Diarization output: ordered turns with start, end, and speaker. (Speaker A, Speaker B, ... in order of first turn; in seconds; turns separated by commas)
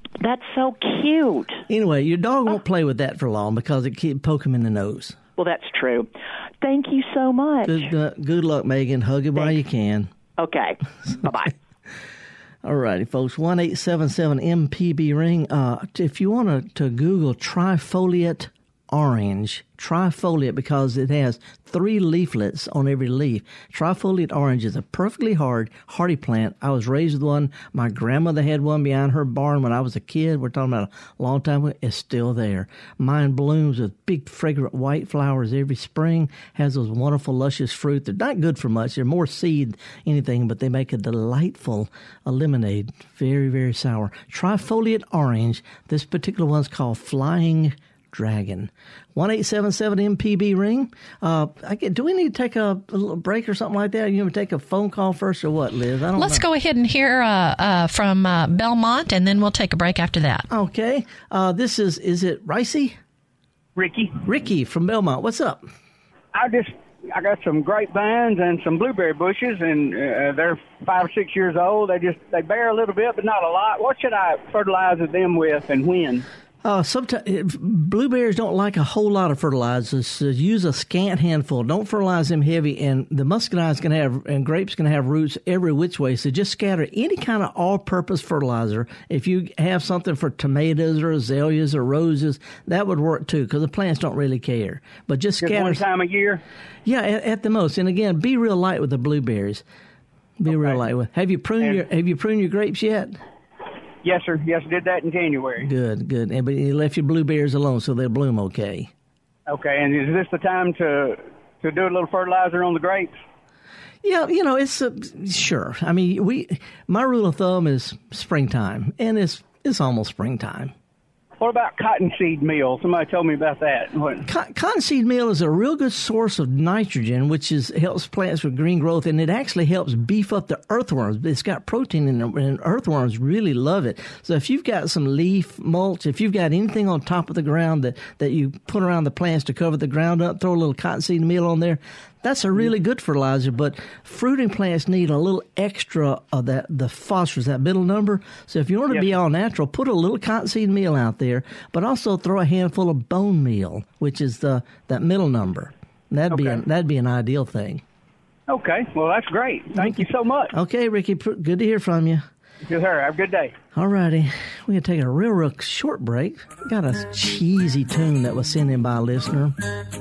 Speaker A: 0.2-1.6, Speaker B: 1.7-5.2, Speaker A: 5.4-6.1, Speaker A: 6.6-7.9, Speaker B: 7.7-10.1, Speaker A: 10.4-11.5, Speaker B: 12.6-56.4, Speaker C: 56.2-60.5, Speaker B: 60.5-63.0, Speaker D: 63.8-64.2, Speaker B: 64.2-65.7, Speaker D: 66.3-76.3, Speaker B: 76.6-95.8, Speaker D: 95.4-96.4, Speaker B: 96.9-99.6, Speaker B: 100.4-103.2, Speaker D: 100.5-100.8, Speaker D: 104.0-105.7, Speaker B: 105.6-108.9, Speaker D: 109.5-113.1, Speaker B: 114.0-120.7, Speaker D: 121.4-124.2, Speaker B: 124.2-157.8, Speaker D: 156.3-156.6, Speaker D: 158.5-160.5, Speaker B: 159.8-162.2, Speaker D: 162.7-163.6, Speaker B: 163.7-169.6